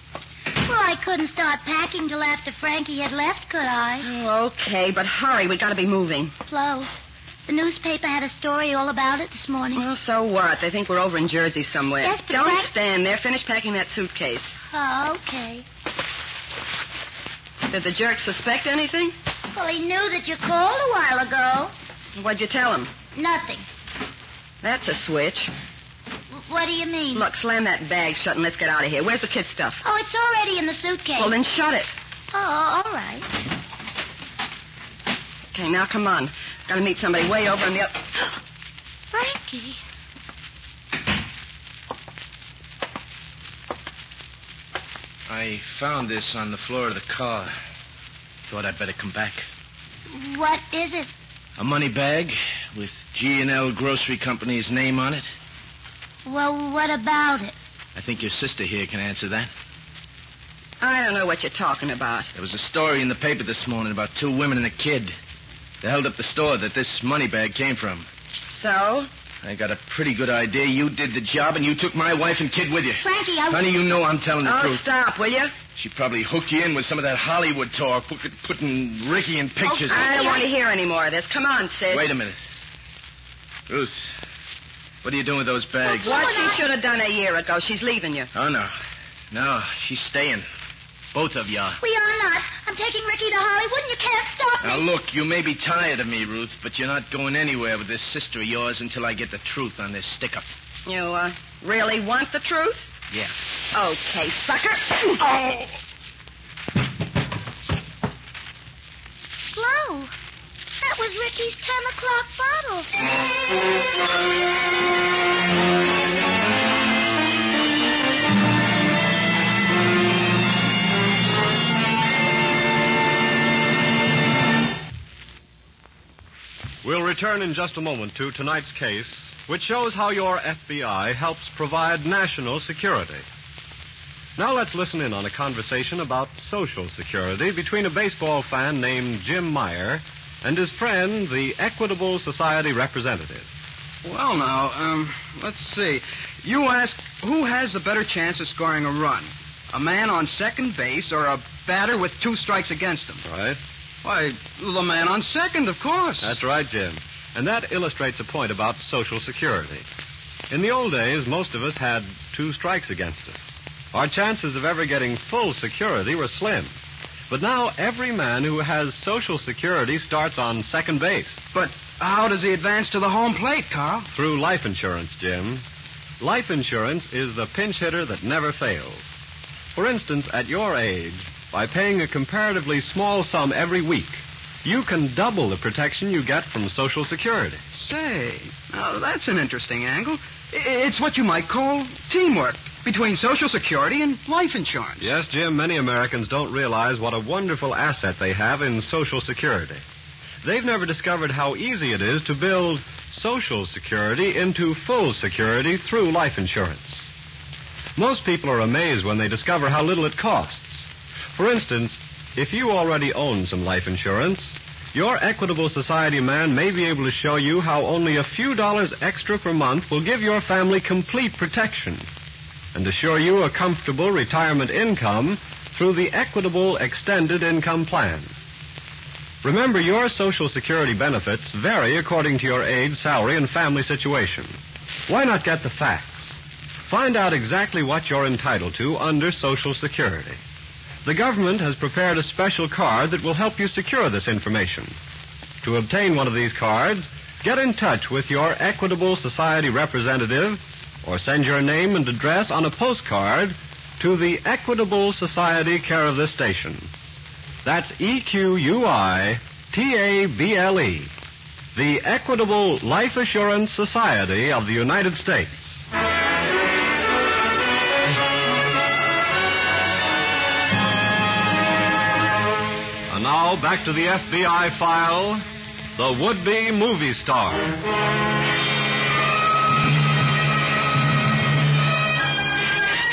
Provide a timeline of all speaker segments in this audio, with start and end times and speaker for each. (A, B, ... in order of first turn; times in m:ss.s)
0:00.6-0:04.1 A
0:04.0-0:06.3 B
0:06.5-0:06.9 A
0:07.5-0:09.8 A
0:09.7-0:14.5 B
0:12.0-0:12.7 A
0:14.7-0:15.6 A
0:17.7-0:19.1 B
0:19.5-0:21.7 A
0:22.2-0:22.9 B
0:23.1-0:23.6 A
0:24.6-0:25.5 B
0:26.3-0:27.2 A
0:27.1-0:29.8 B
0:29.8-0:31.3 A
0:31.2-0:31.9 B
0:32.3-0:33.3 A
0:35.5-0:38.0 B
0:39.1-0:39.8 A
0:45.3-0:47.5 C
0:48.5-0:49.4 C
0:50.1-0:51.1 A
0:51.6-0:55.2 C
0:56.2-0:57.5 A
0:57.9-0:59.5 C
1:00.8-1:02.3 B
1:02.3-1:05.1 C
1:05.8-1:08.1 C
1:08.5-1:09.1 B
1:09.4-1:14.8 C
1:13.0-1:13.6 A
1:14.4-1:15.6 B
1:15.7-1:20.3 C
1:19.6-1:20.4 A
1:19.9-1:22.1 B
1:21.9-1:22.4 C
1:23.7-1:24.1 C
1:25.0-1:26.3 C
1:25.8-1:26.6 A
1:26.0-1:28.3 B
1:28.3-1:28.7 C
1:29.3-1:30.4 C
1:31.1-1:31.8 C
1:31.8-1:34.8 A
1:34.6-1:40.5 C
1:40.8-1:42.9 B
1:43.7-1:45.3 B
1:49.5-1:50.1 A
1:50.8-1:52.9 A
2:06.8-2:13.2 D
2:14.4-2:23.5 D
2:24.0-2:33.2 E
2:33.3-2:33.6 D
2:34.0-2:36.4 E
2:36.2-2:39.8 D
2:40.5-2:46.7 D
2:47.3-2:51.4 D
2:51.5-2:54.1 E
2:54.1-2:55.6 D
2:56.2-2:59.0 D
2:59.7-3:07.6 D
3:07.7-3:15.1 E
3:15.0-3:19.8 D
3:20.4-3:27.1 D
3:28.0-3:42.1 D
3:42.7-3:48.3 D
3:49.4-4:00.4 D
4:01.0-4:05.0 D
4:05.6-4:16.9 D
4:17.6-4:21.1 D
4:21.7-4:25.8 D
4:33.1-4:35.4 D
4:36.0-4:37.7 D